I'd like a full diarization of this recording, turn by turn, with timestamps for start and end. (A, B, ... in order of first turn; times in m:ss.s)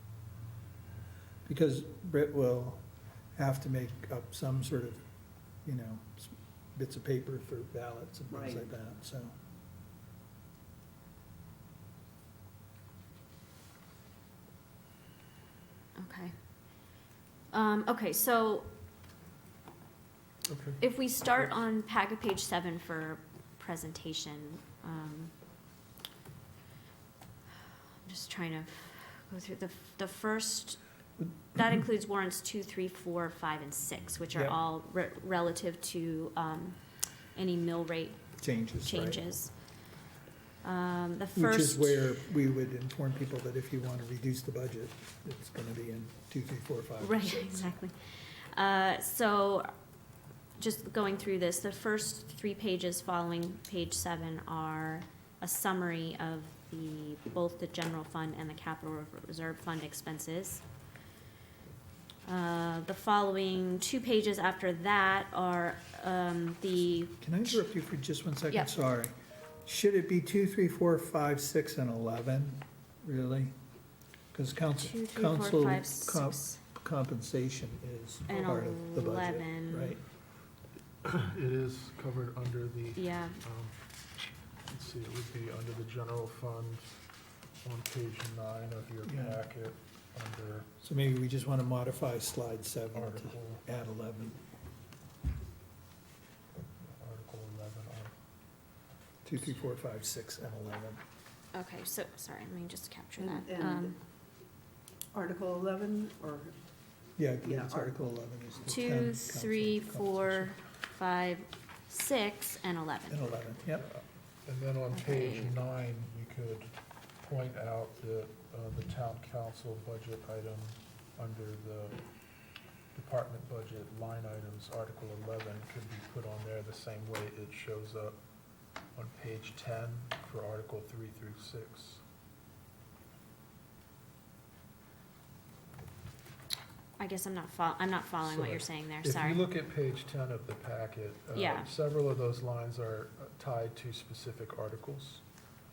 0:01.4-0:02.8 A
0:03.4-0:05.0 A
0:05.6-0:09.3 A
0:08.3-0:08.7 B
0:16.0-0:16.3 C
0:17.5-0:18.7 C
0:20.4-0:20.8 D
0:20.8-0:25.3 C
0:28.0-0:30.8 C
0:31.2-0:31.7 A
0:31.5-0:36.8 C
0:34.3-0:34.6 A
0:37.3-0:39.5 C
0:38.4-0:39.2 A
0:40.6-0:42.2 C
0:41.3-0:47.7 A
0:47.0-0:49.7 C
0:50.6-1:00.6 C
1:02.2-1:07.2 C
1:07.2-1:13.5 A
1:14.3-1:20.0 A
1:14.8-1:16.6 C
1:18.3-1:20.0 C
1:21.0-1:23.8 D
1:22.9-1:23.4 C
1:24.7-1:26.9 D
1:27.6-1:30.7 D
1:29.0-1:29.4 A
1:30.8-1:34.4 A
1:32.9-1:33.6 D
1:36.8-1:38.1 D
1:39.2-1:41.0 A
1:41.5-1:44.0 C
1:43.2-1:44.0 B
1:45.1-1:46.5 B
1:47.2-1:50.6 A
1:47.4-1:47.9 B
1:48.7-1:53.3 C
1:53.1-1:53.8 A
1:53.7-2:02.0 D
1:54.9-1:55.6 C
2:02.9-2:08.2 D
2:08.9-2:12.0 D
2:17.0-2:19.4 C
2:18.2-2:25.2 D
2:21.3-2:21.7 C